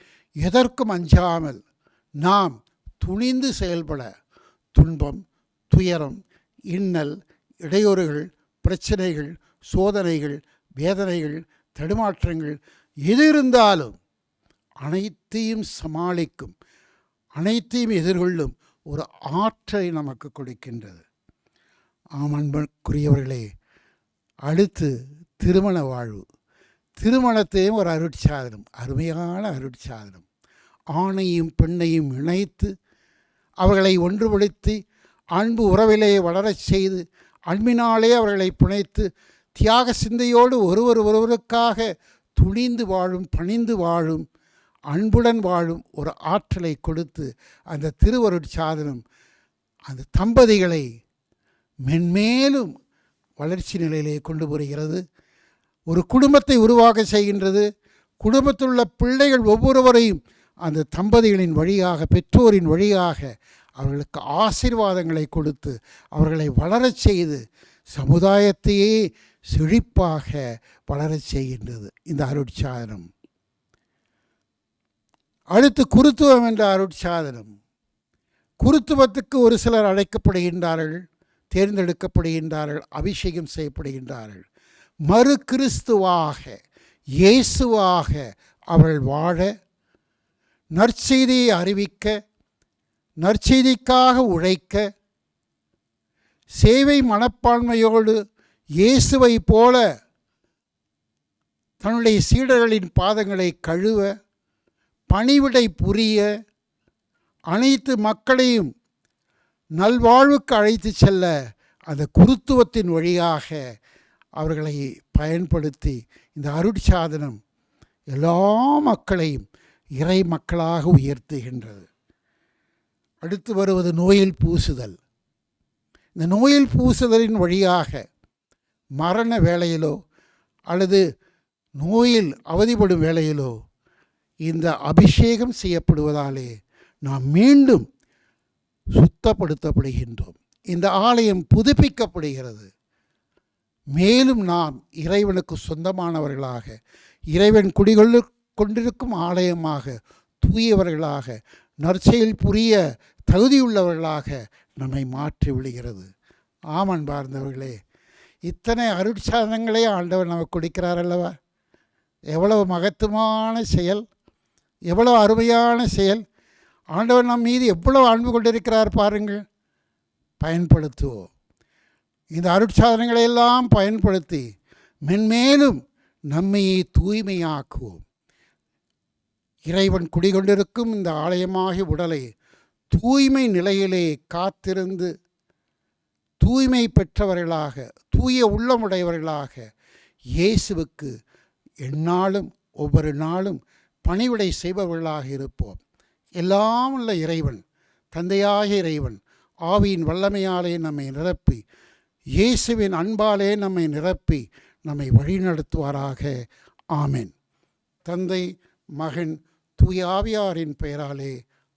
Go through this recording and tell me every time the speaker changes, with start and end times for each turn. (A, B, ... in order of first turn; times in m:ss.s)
0:00.4-0:01.6 A
0:02.2-0:04.1 A
0:04.7-0:06.2 A
0:06.7-0:14.0 A
0:14.8-0:16.5 A
0:17.4-0:21.0 A
0:22.2-0:23.4 A
0:24.5-0:26.2 A
0:27.0-0:30.2 A
0:31.0-0:32.7 A
0:33.6-0:34.8 A
0:35.4-0:39.1 A
0:39.6-0:41.8 A
0:42.4-0:44.2 A
0:44.9-0:49.0 A
0:49.9-0:50.8 A
0:51.8-0:52.7 A
0:53.4-0:55.0 A
0:55.9-0:57.6 A
0:58.2-1:07.4 A
1:07.9-1:08.9 A
1:09.5-1:13.1 A
1:15.5-1:17.5 A
1:18.6-1:21.0 A
1:21.5-1:24.4 A
1:25.1-1:26.6 A
1:27.2-1:29.5 A
1:30.8-1:32.1 A
1:33.2-1:34.8 A
1:36.6-1:38.2 A
1:38.8-1:39.8 A
1:41.8-1:44.1 A
1:45.1-1:46.2 A
1:47.5-1:48.7 A
1:49.8-1:51.3 A
1:51.9-1:53.6 A
1:54.4-1:57.4 A
1:58.1-1:59.4 A
2:00.0-2:01.9 A
2:03.2-2:04.9 A
2:06.2-2:08.0 A
2:09.0-2:09.9 A
2:10.7-2:11.0 A
2:11.8-2:13.5 A
2:14.4-2:16.5 A
2:17.0-2:17.8 A
2:19.0-2:22.7 A
2:23.9-2:26.8 A
2:27.3-2:32.8 A
2:33.3-2:36.1 A
2:36.7-2:37.7 A
2:38.5-2:41.3 A
2:42.3-2:44.0 A
2:44.9-2:46.2 A
2:46.9-2:49.4 A
2:50.4-2:51.3 A
2:52.3-2:54.4 A
2:55.1-2:55.8 A
2:56.3-2:58.0 A
2:59.7-3:02.2 A
3:02.9-3:05.1 A
3:06.4-3:09.6 A
3:10.4-3:11.1 A
3:11.8-3:15.8 A
3:16.4-3:17.6 A
3:18.1-3:21.6 A
3:22.4-3:26.3 A
3:26.9-3:27.3 A
3:28.0-3:28.4 A
3:29.0-3:31.4 A